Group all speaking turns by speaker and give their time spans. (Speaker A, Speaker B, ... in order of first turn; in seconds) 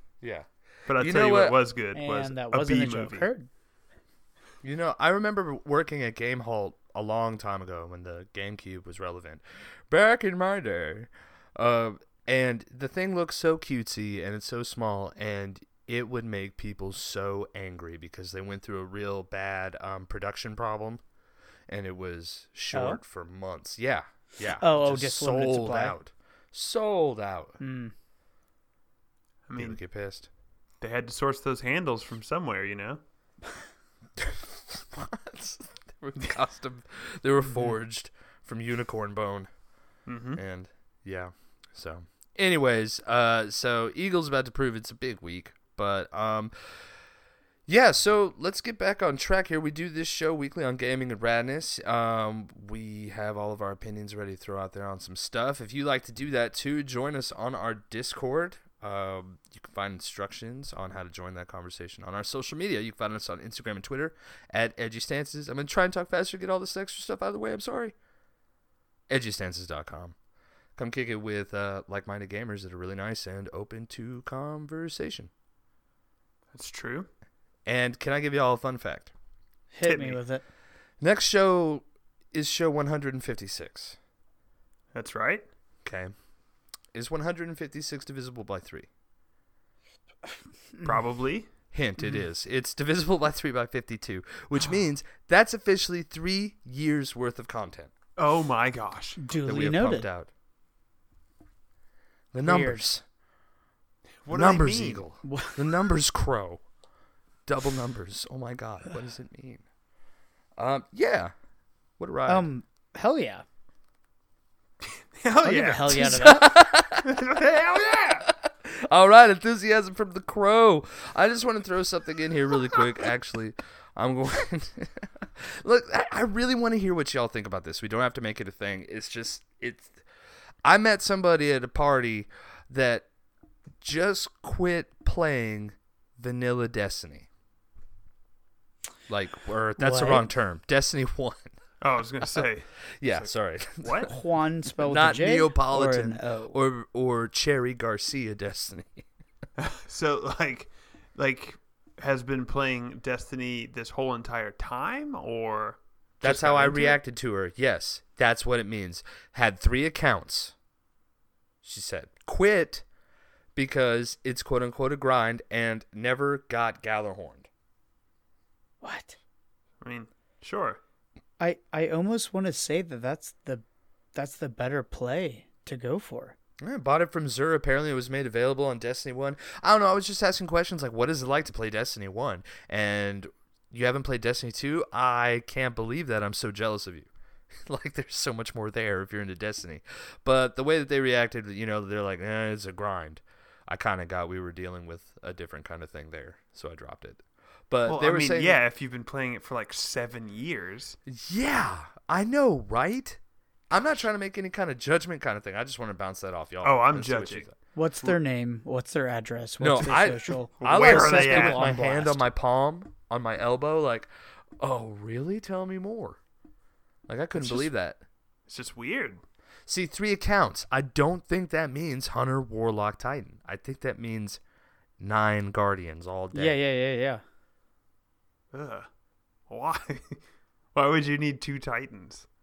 Speaker A: 0.2-1.6, 4.6-21.0, 21.7-27.6, 29.6-30.3, 34.2-39.5, 40.4-46.8, 47.7-67.9, 69.1-70.1, 70.8-75.3, 77.7-79.1, 81.0-84.0, 85.8-86.1, 86.9-88.9, 91.7-97.9, 99.4-100.3, 102.3-103.0, 104.3-106.6, 107.5-109.6, 110.6-111.3, 112.0-112.5, 116.0-117.4, 118.1-129.9, 130.6-133.1, 133.8-137.3, 139.1-141.5, 142.2-142.5, 143.0-144.1, 144.8-149.1, 156.2-160.6, 161.6-162.8, 163.6-167.5, 176.6-187.1, 187.6-198.6, 201.1-203.2, 203.7-207.5, 209.6-214.1, 214.6-216.2, 217.1-218.0, 219.7-224.4, 225.0-226.6
Speaker B: 0.9-3.3, 29.5-29.8, 30.8-33.0, 40.1-40.4, 76.5-77.1, 79.8-80.2, 84.9-85.4, 90.8-91.5, 98.2-99.2, 104.2-105.0, 115.1-116.4, 117.0-118.3, 141.8-144.1, 149.6-157.0, 169.8-170.8, 197.8-201.0, 206.6-207.5, 210.6-211.7, 218.5-219.2, 228.5-228.9, 229.5-230.2, 230.7-232.3
Speaker C: 1.9-3.5, 22.7-23.0, 24.6-25.9, 27.6-27.9, 79.7-80.4, 99.2-100.1, 102.4-102.9, 105.2-105.6, 112.3-113.4, 115.4-116.5, 139.8-140.3, 144.1-146.6, 168.8-169.2, 171.4-176.4, 207.8-212.2, 217.4-217.7, 226.3-227.2